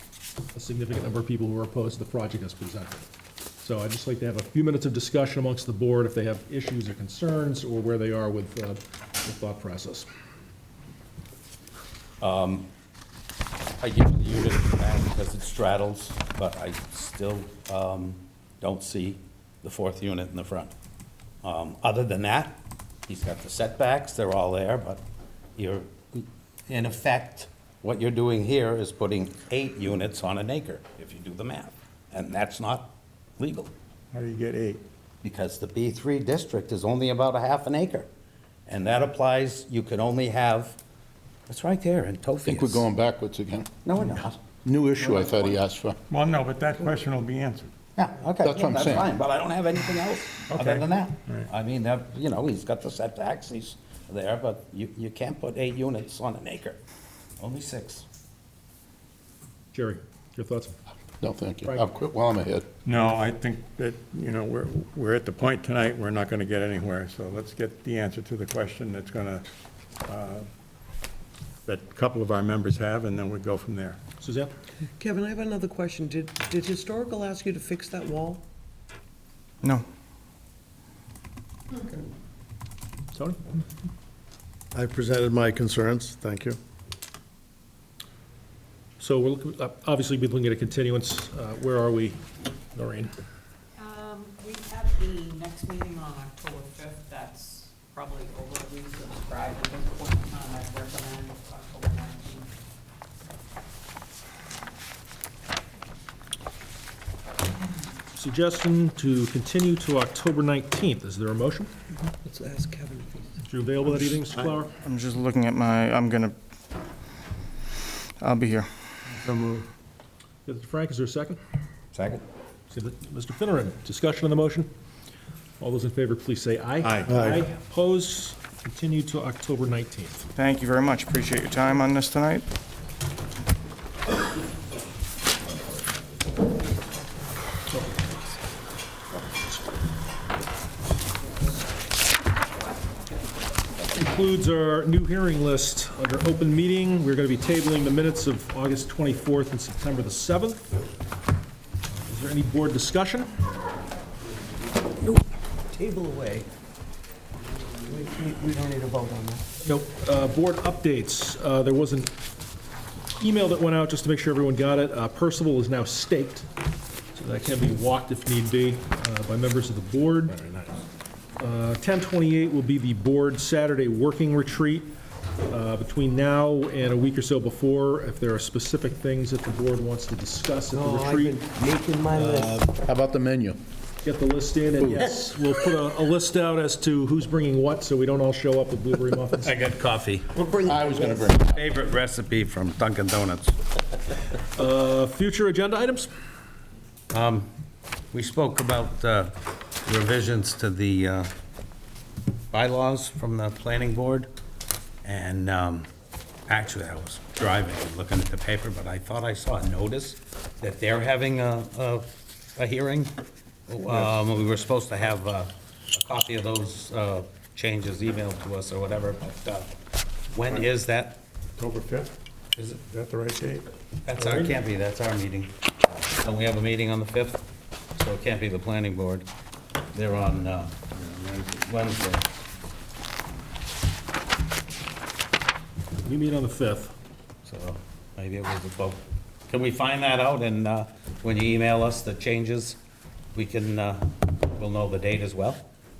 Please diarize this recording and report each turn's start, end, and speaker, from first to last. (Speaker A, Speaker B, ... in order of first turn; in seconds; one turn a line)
Speaker A: 0.5-3.1
Speaker A: 3.6-10.1
Speaker B: 12.2-12.7
Speaker B: 13.8-20.7
Speaker B: 21.4-25.0
Speaker B: 25.6-33.7
Speaker C: 34.1-34.8
Speaker B: 35.2-38.1
Speaker B: 38.7-40.8
Speaker B: 41.5-42.9
Speaker D: 42.5-43.7
Speaker B: 43.8-44.4
Speaker D: 44.5-46.0
Speaker B: 45.0-45.5
Speaker C: 46.1-47.7
Speaker B: 48.0-56.8
Speaker D: 48.4-49.1
Speaker C: 50.5-51.5
Speaker B: 57.4-58.0
Speaker A: 59.7-60.7
Speaker D: 61.2-62.7
Speaker C: 62.9-69.5
Speaker C: 70.0-70.5
Speaker C: 71.7-74.0
Speaker A: 74.2-74.5
Speaker E: 75.0-78.4
Speaker A: 83.1-83.4
Speaker F: 84.7-86.6
Speaker A: 89.0-93.1
Speaker G: 93.8-102.5
Speaker A: 108.1-111.7
Speaker E: 112.0-113.3
Speaker A: 113.4-114.7
Speaker H: 114.8-116.3
Speaker H: 118.2-119.2
Speaker A: 120.5-121.4
Speaker B: 121.9-122.2
Speaker A: 122.7-124.7
Speaker A: 125.6-130.3
Speaker C: 126.8-127.1
Speaker F: 127.1-127.4
Speaker H: 130.3-132.4
Speaker A: 137.7-138.2
Speaker A: 143.9-150.7
Speaker A: 152.1-153.3
Speaker E: 155.0-156.5
Speaker E: 157.8-159.4
Speaker A: 159.6-162.1
Speaker A: 163.2-166.5
Speaker A: 167.1-170.4
Speaker A: 171.4-174.9
Speaker A: 175.5-181.4
Speaker E: 180.7-182.7
Speaker A: 182.1-182.7
Speaker D: 182.8-183.6
Speaker A: 184.0-189.6
Speaker D: 184.8-185.1
Speaker B: 189.4-190.3
Speaker E: 190.3-191.5
Speaker D: 190.6-191.5
Speaker B: 191.5-193.6
Speaker A: 194.5-196.1
Speaker B: 197.1-197.5
Speaker B: 198.1-199.3
Speaker B: 199.8-201.3
Speaker B: 202.5-204.3
Speaker B: 205.0-205.9
Speaker B: 206.5-213.1
Speaker B: 213.7-219.7
Speaker C: 213.9-214.2
Speaker B: 220.3-221.2
Speaker C: 221.6-222.1
Speaker B: 222.6-222.8
Speaker C: 222.8-223.7
Speaker B: 224.0-225.5
Speaker A: 224.2-224.5
Speaker B: 226.2-227.4
Speaker B: 228.0-229.3
Speaker B: 229.9-232.2
Speaker A: 236.0-236.9
Speaker B: 237.4-242.8
Speaker B: 243.3-245.6